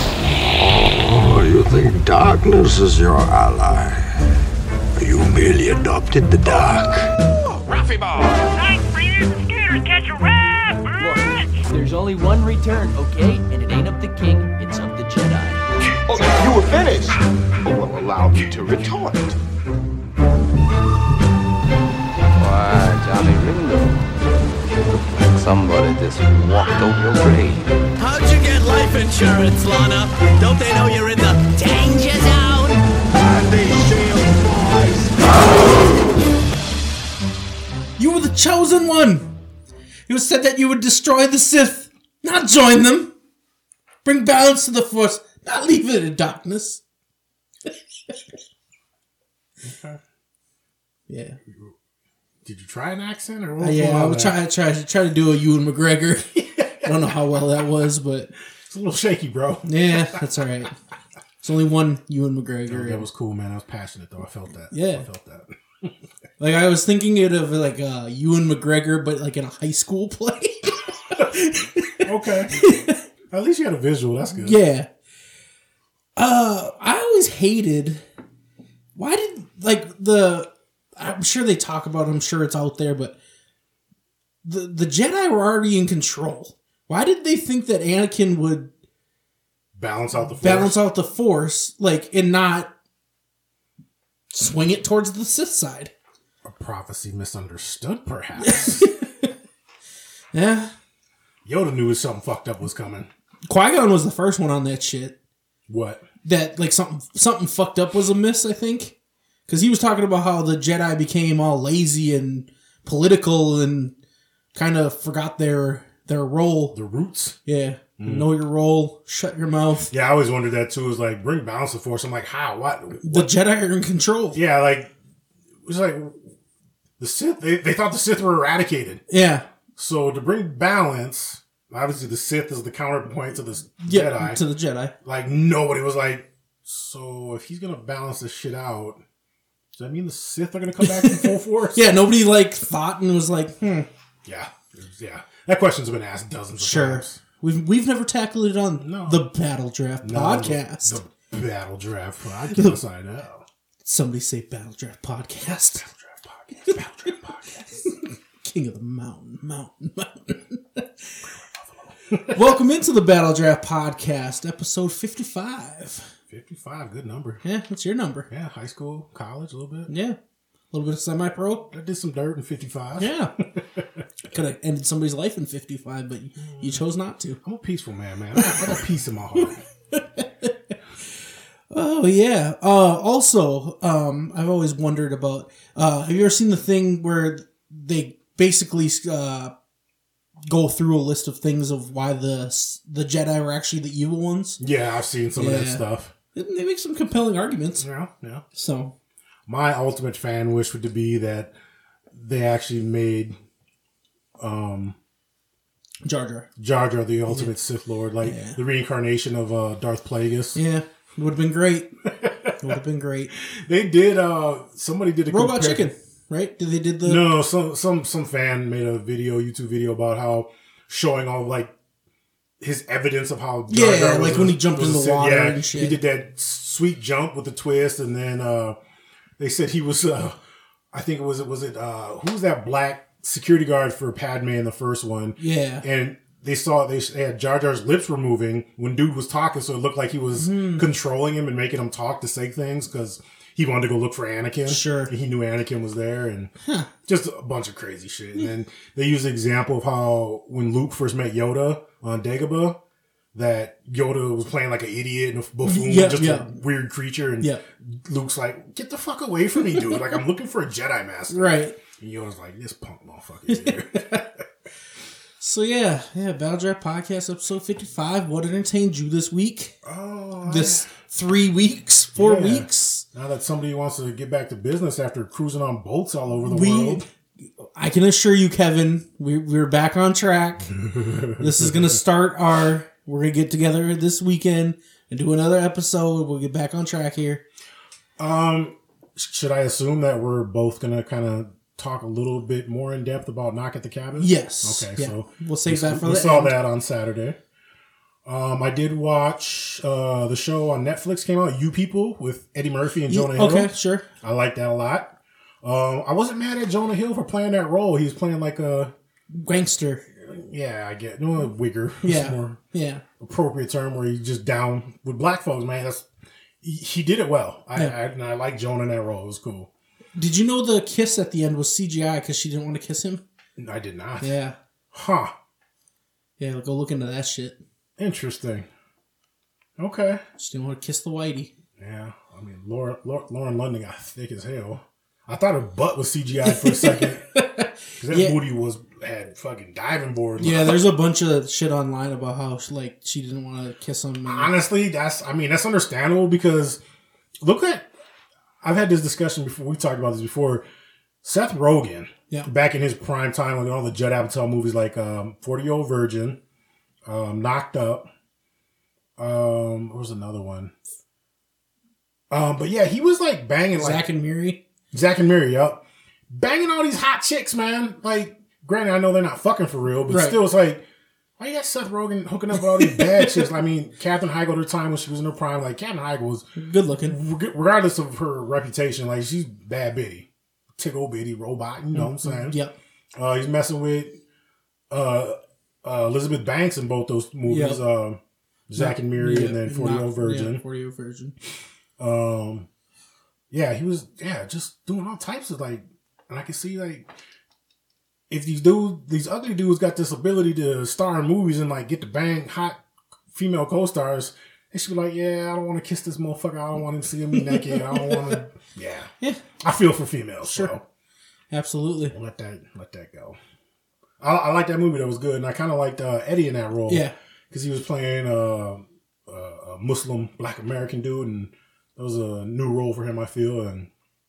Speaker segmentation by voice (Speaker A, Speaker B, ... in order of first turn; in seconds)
Speaker A: 0.7-4.0, 5.0-7.1
Speaker B: 7.4-8.3, 16.1-19.4, 33.1-35.8
Speaker C: 8.4-11.7
Speaker D: 11.0-15.6
Speaker E: 22.4-24.3, 25.1-27.7
Speaker F: 28.0-32.8
Speaker G: 38.0-39.3, 40.1-43.1, 44.0-46.8, 51.1-51.4, 53.6-58.3, 59.6-60.7, 61.4-63.0, 64.7-65.0, 66.4-73.0, 74.4-74.9, 76.2-78.0, 79.0-83.2, 84.4-88.7, 90.4-92.7, 94.3-95.9, 98.4-99.3, 100.3-100.7, 103.5-105.2, 106.2-109.0, 109.5-113.9, 114.5-116.8, 117.4-119.9, 123.0-124.4, 129.1-129.4, 133.8-134.9, 140.8-143.9, 146.6-151.0, 153.8-155.8, 157.8-161.2, 162.3-166.1, 167.4-168.3, 169.9-170.2, 170.7-171.7, 173.0-173.3, 174.3-177.4, 178.3-178.7, 179.9-180.5, 181.7-189.5, 190.5-194.6, 195.4-197.8, 198.5-198.9, 206.0-206.5, 207.3-207.5, 208.2-208.6, 210.5-211.9, 212.6-213.3, 215.3-217.2, 223.7-226.0, 235.4-235.8, 240.3-240.8, 244.7-245.1, 246.6-246.9, 255.6-256.5, 261.3-261.8, 263.5-264.2, 265.4-269.7, 270.4-273.0, 276.4-280.7, 281.4-287.4, 294.2-296.6, 303.1-304.1, 309.3-310.0, 312.0-313.0, 320.1-323.2, 324.2-324.6, 326.4-327.6, 330.4-331.5, 336.4-338.4, 340.4-344.5, 363.7-364.6, 370.1-370.4, 372.5-373.5, 376.6-377.2, 381.9-382.7, 387.5-387.8, 388.8-391.3, 407.3-408.4, 410.4-410.7, 411.5-412.1, 416.9-417.1
Speaker H: 49.6-50.0, 51.5-51.7, 52.4-54.4, 56.4-57.2, 58.6-60.2, 62.7-65.9, 72.0-72.6, 73.3-74.6, 89.8-90.8, 96.4-98.9, 101.4-103.1, 105.7-106.0, 116.7-117.4, 118.0-118.3, 119.9-123.3, 124.3-124.9, 125.6-126.3, 127.0-129.0, 129.8-134.4, 135.0-139.0, 139.7-141.9, 144.2-147.2, 148.8-149.3, 150.0-153.4, 155.5-157.8, 161.2-162.4, 166.3-167.4, 168.3-169.9, 171.7-173.8, 176.4-176.8, 177.4-179.6, 194.6-196.1, 197.8-198.4, 199.5-201.5, 202.1-203.4, 204.4-205.0, 206.6-210.6, 212.2-212.5, 213.3-215.9, 217.0-221.7, 222.6-228.8, 229.4-230.4, 230.9-246.5, 247.1-252.8, 253.3-264.2, 269.8-270.9, 272.1-277.0, 280.8-281.9, 288.2-297.4, 298.2-308.9, 310.2-312.6, 313.2-316.1, 316.6-319.7, 323.6-324.4, 324.9-325.3, 328.0-328.7, 329.8-330.2, 331.8-337.3, 338.0-340.8, 344.2-346.8, 347.4-347.9, 348.6-350.6, 351.2-356.4, 357.1-358.1, 359.2-360.7, 362.3-364.1, 364.9-370.8, 371.4-376.5, 377.0-382.6, 383.1-384.2, 384.9-390.6, 392.0-392.7, 393.5-397.1, 398.3-402.8, 403.3-410.8, 412.1-413.4, 414.2-423.9